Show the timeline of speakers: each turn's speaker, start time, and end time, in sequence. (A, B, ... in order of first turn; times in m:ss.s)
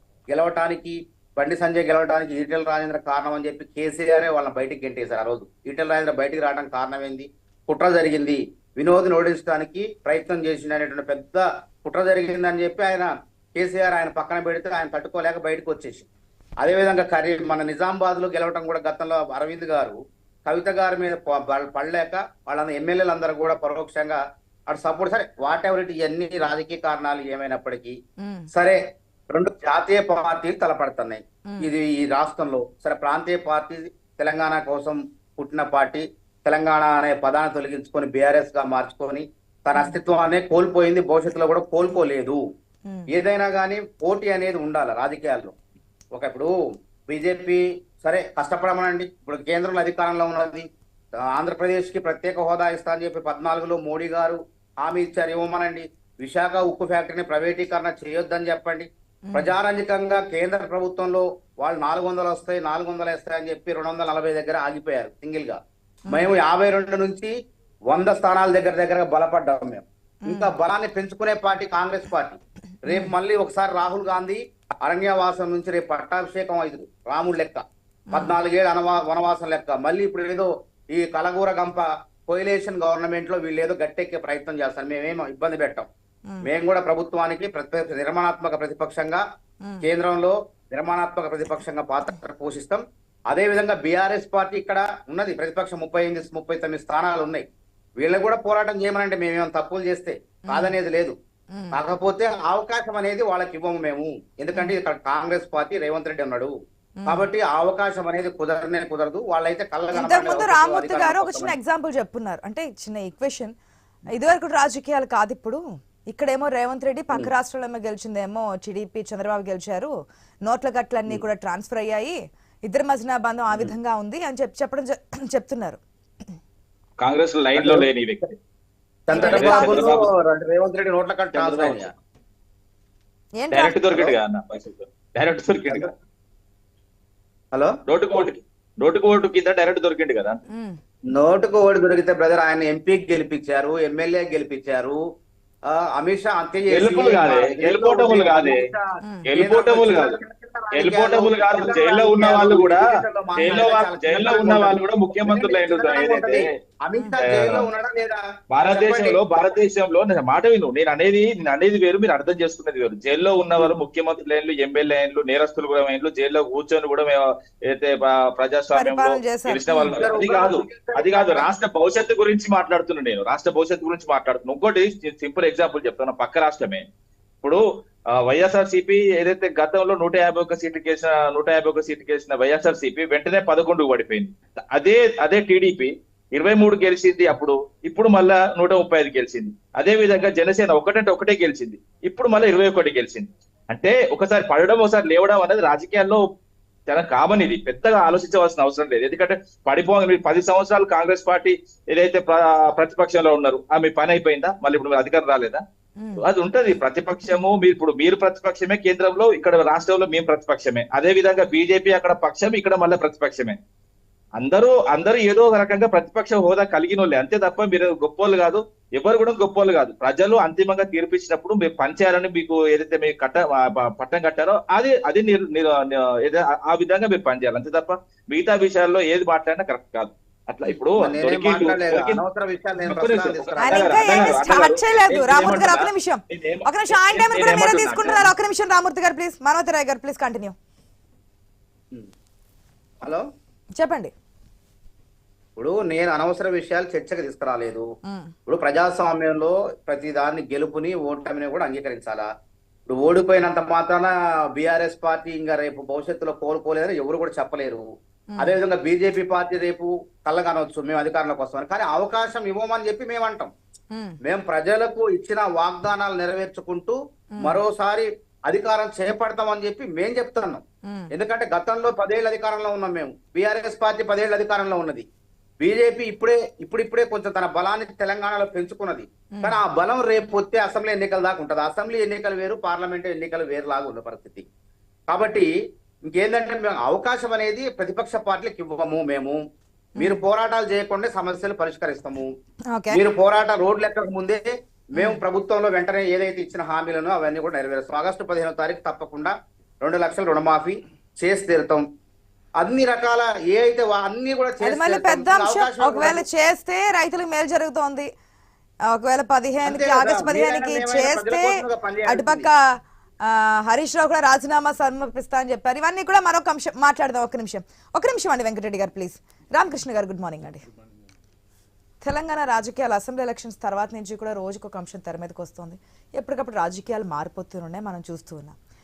0:00.3-0:16.1 A
0:16.6-0:28.0 A
0:28.2-0:28.5 B
0:28.5-0:28.8 A
0:29.3-0:42.4 A
0:43.1-0:45.5 A
0:46.1-0:46.5 A
0:47.1-0:50.6 A
0:51.3-1:05.6 A
0:59.3-0:59.5 B
1:06.1-1:06.3 B
1:06.1-1:07.3 A
1:07.9-1:25.9 A
1:10.2-1:10.5 B
1:12.9-1:13.1 B
1:18.1-1:18.4 B
1:26.4-1:29.2 A
1:29.8-1:37.4 A
1:38.0-1:41.1 A
1:41.7-1:46.5 A
1:47.0-1:47.3 B
1:47.1-1:51.5 A
1:49.9-1:53.5 B
1:54.1-1:59.9 B
2:00.4-2:05.8 B
2:07.0-2:08.3 C
2:07.5-2:07.9 A
2:09.1-2:11.9 A
2:09.1-2:09.9 B
2:09.2-2:10.0 C
2:11.3-2:11.9 C
2:13.4-2:13.8 B
2:13.5-2:15.9 C
2:17.9-2:20.4 C
2:20.5-2:20.8 B
2:21.1-2:25.0 A
2:25.7-2:39.2 A
2:26.7-2:28.6 C
2:29.3-2:30.1 C
2:30.7-2:32.8 C
2:33.4-2:36.5 C
2:37.2-2:37.7 C
2:38.5-2:56.8 C
2:48.7-2:50.1 B
2:49.7-2:51.5 A
2:58.2-3:16.2 C
3:16.9-3:25.6 C
3:26.2-3:33.6 C
3:34.4-3:52.2 C
3:51.0-3:54.4 A
3:52.8-3:58.3 C
3:53.6-4:00.5 B
4:03.8-4:04.1 B
4:05.6-4:07.8 A
4:08.1-4:08.3 B
4:08.5-4:12.3 A
4:12.9-4:17.8 A
4:18.4-4:23.5 A
4:24.2-4:35.0 A
4:35.6-4:44.4 A
4:45.1-4:45.5 A
4:46.1-4:49.4 A
4:50.0-4:50.2 B
4:50.0-4:52.3 A
4:52.7-4:53.0 B
4:52.9-5:01.8 A
4:55.0-4:55.2 B
5:02.6-5:06.2 A
5:04.6-5:08.1 B
5:08.9-5:12.6 B
5:09.6-5:12.5 A
5:13.2-5:20.6 B
5:22.0-5:28.6 B